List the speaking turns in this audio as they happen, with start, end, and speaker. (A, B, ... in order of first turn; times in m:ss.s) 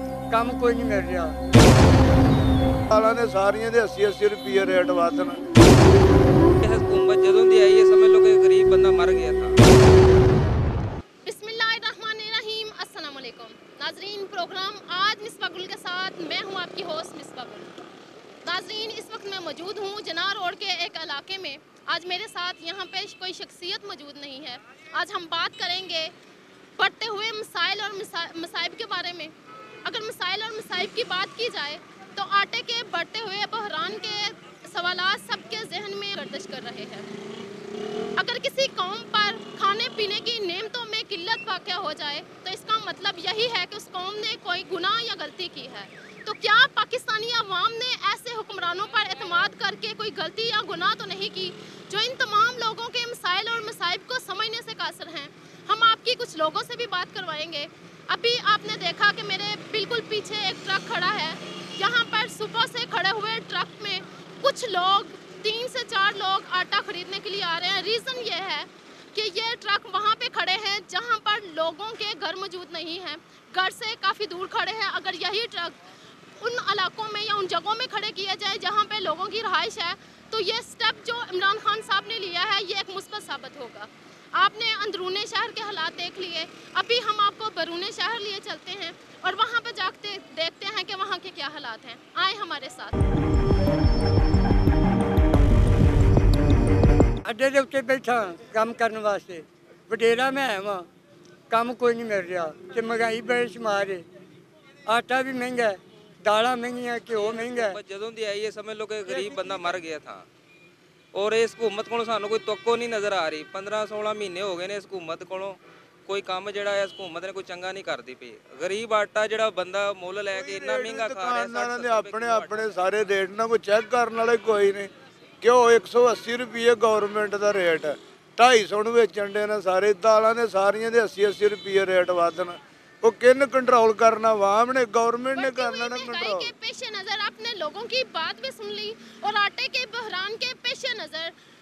0:00.3-0:01.4 A
0:02.9-0:05.4 B
0:06.6-0:09.6 C
0:11.2-0:17.9 D
0:18.4-0:26.1 D
0:26.8-0:29.3 D
0:29.8-0:37.1 D
0:38.2-1:15.8 D
1:16.4-1:33.0 D
1:37.2-1:40.9 A
1:41.5-1:44.0 A
1:44.9-1:47.8 A
1:47.1-1:50.3 C
1:51.1-2:02.7 C
2:00.3-2:04.9 B
2:05.4-2:16.5 B
2:15.3-2:21.4 D